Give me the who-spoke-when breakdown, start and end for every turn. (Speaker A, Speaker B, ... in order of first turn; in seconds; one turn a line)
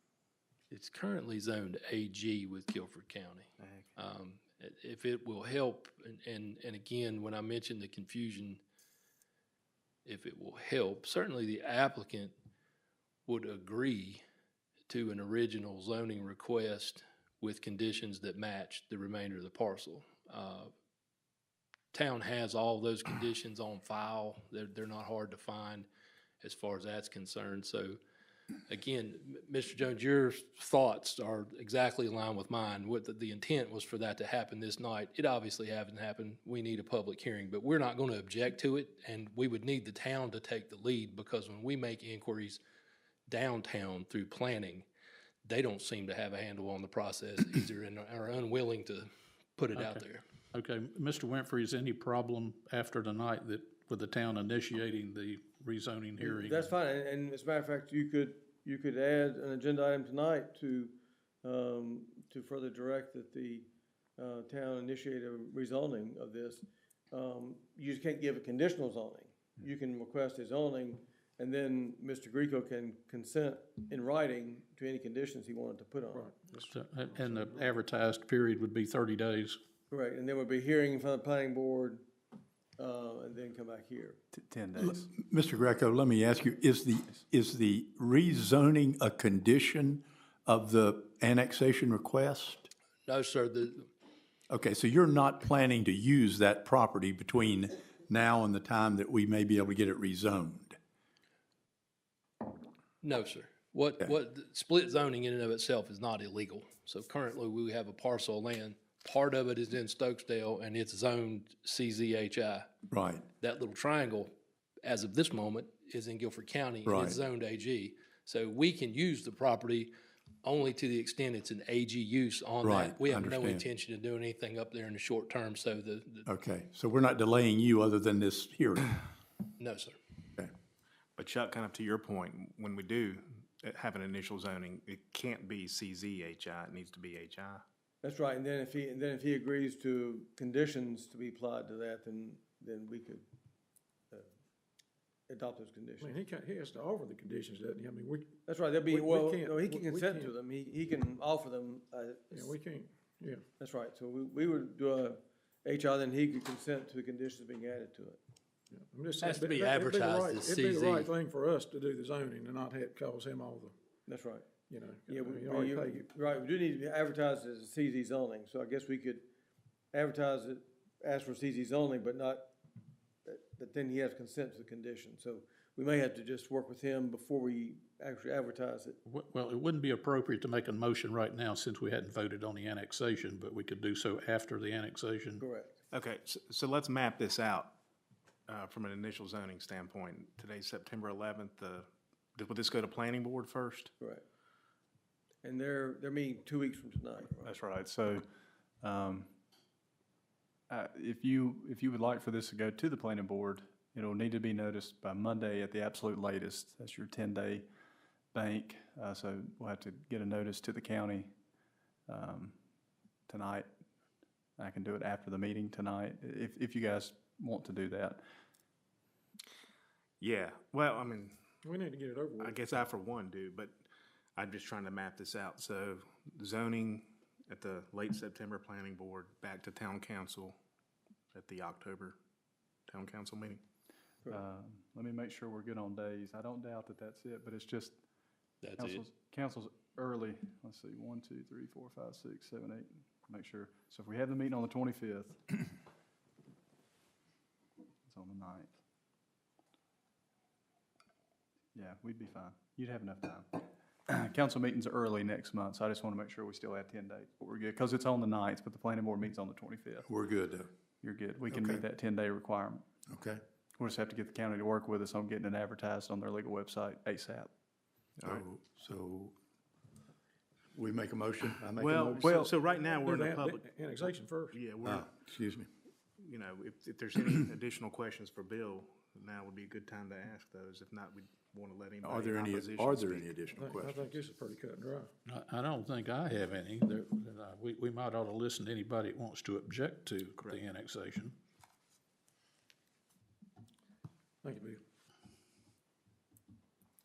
Speaker A: 0.7-8.6
Speaker B: 3.6-3.9
Speaker A: 10.0-12.3
Speaker A: 13.3-14.2
Speaker A: 14.9-20.7
Speaker A: 21.9-25.9
Speaker A: 26.4-28.0
Speaker A: 28.7-42.6
Speaker A: 43.3-44.9
Speaker A: 45.5-50.2
Speaker C: 49.7-56.7
Speaker D: 56.2-76.3
Speaker E: 76.1-76.7
Speaker C: 76.7-79.6
Speaker D: 79.9-82.0
Speaker D: 82.8-84.2
Speaker F: 84.3-85.1
Speaker G: 84.8-92.7
Speaker A: 93.1-93.9
Speaker G: 94.5-100.8
Speaker A: 103.0-112.7
Speaker G: 112.9-113.3
Speaker A: 113.4-114.3
Speaker A: 114.8-119.9
Speaker G: 116.8-117.2
Speaker A: 120.4-126.3
Speaker G: 122.6-123.7
Speaker G: 126.2-129.0
Speaker A: 129.6-130.0
Speaker B: 131.2-137.6
Speaker D: 138.0-143.2
Speaker D: 145.3-146.1
Speaker E: 146.0-148.3
Speaker D: 148.4-152.5
Speaker E: 148.8-150.3
Speaker E: 152.3-153.4
Speaker D: 153.6-158.2
Speaker E: 158.7-163.7
Speaker A: 159.2-161.1
Speaker D: 164.1-164.5
Speaker E: 164.7-166.1
Speaker D: 165.1-169.3
Speaker D: 169.9-172.5
Speaker D: 173.2-179.0
Speaker C: 179.1-185.4
Speaker D: 185.4-185.8
Speaker B: 185.9-187.7
Speaker B: 188.5-193.9
Speaker D: 195.4-197.5
Speaker F: 197.4-198.2
Speaker F: 198.8-199.3
Speaker F: 200.7-207.7
Speaker F: 208.3-211.3
Speaker F: 212.1-212.6
Speaker F: 213.3-213.7
Speaker F: 214.6-218.2
Speaker B: 220.2-221.4
Speaker E: 221.6-222.6
Speaker B: 222.4-223.8
Speaker B: 224.3-230.6
Speaker B: 231.3-232.2
Speaker B: 232.9-233.6
Speaker F: 234.3-238.0
Speaker A: 238.6-239.0
Speaker F: 238.8-245.7
Speaker F: 248.1-248.7
Speaker F: 251.7-260.1
Speaker G: 260.0-260.7
Speaker F: 261.0-262.9
Speaker G: 261.5-261.8
Speaker G: 263.1-263.4
Speaker F: 263.8-267.5
Speaker G: 268.2-269.3
Speaker G: 270.7-272.4
Speaker B: 271.8-275.1
Speaker E: 272.7-274.7
Speaker G: 274.8-275.7
Speaker B: 276.2-283.3
Speaker G: 282.0-284.2
Speaker E: 283.5-285.1
Speaker C: 285.2-291.3
Speaker E: 294.4-294.8